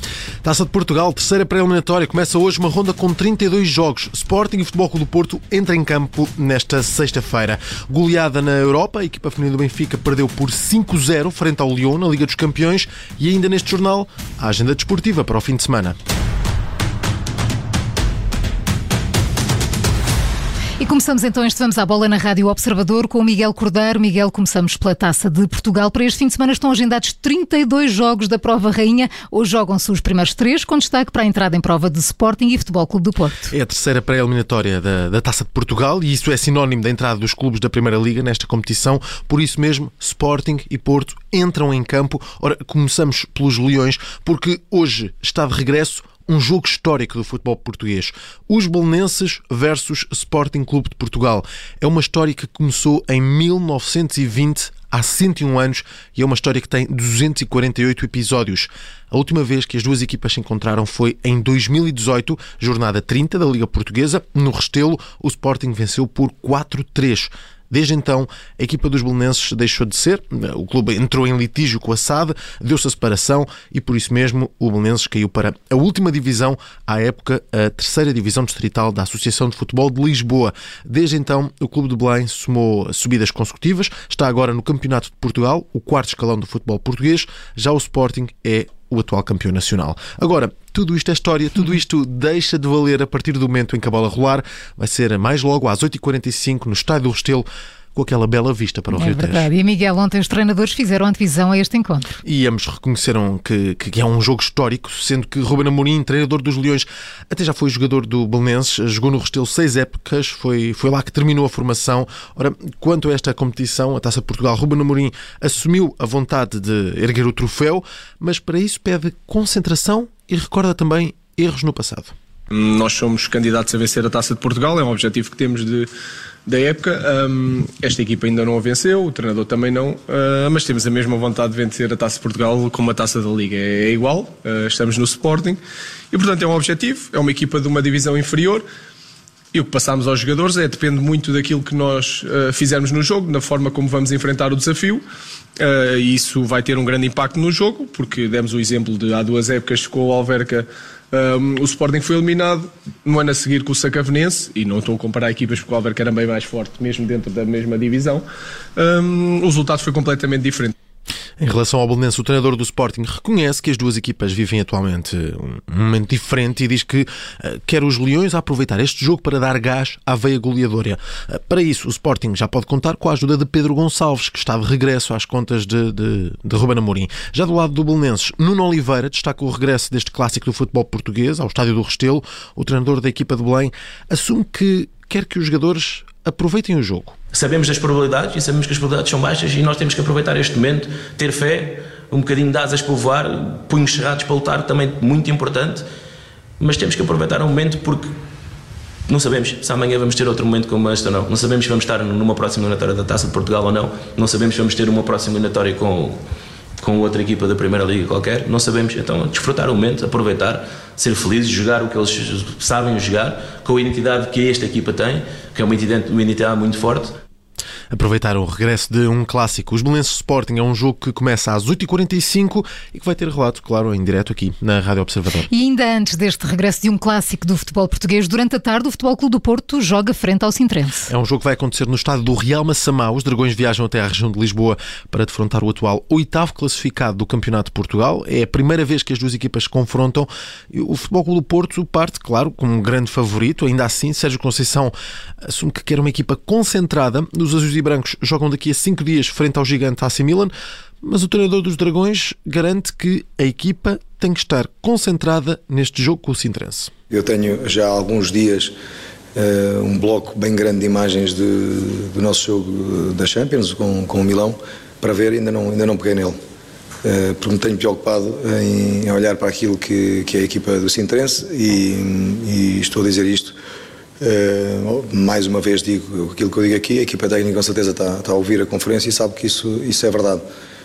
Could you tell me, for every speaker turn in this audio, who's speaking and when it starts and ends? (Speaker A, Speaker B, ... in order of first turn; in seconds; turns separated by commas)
Speaker A: 0.4-15.9, Speaker B: 20.8-33.5, Speaker A: 33.5-99.5, Speaker B: 98.9-102.1, Speaker A: 102.2-122.1, Speaker C: 122.5-125.9, Speaker C: 126.5-135.6, Speaker C: 136.1-138.6, Speaker C: 139.5-145.0, Speaker C: 145.6-158.2, Speaker C: 158.8-160.7, Speaker A: 161.4-187.2, Speaker D: 187.3-195.8, Speaker D: 196.6-198.1, Speaker D: 199.1-206.2, Speaker D: 206.8-217.1, Speaker A: 217.9-225.5, Speaker B: 225.5-231.1, Speaker A: 231.1-250.5, Speaker A: 251.0-256.9, Speaker E: 257.1-258.7, Speaker E: 259.3-266.3, Speaker E: 267.0-273.5, Speaker E: 274.2-280.4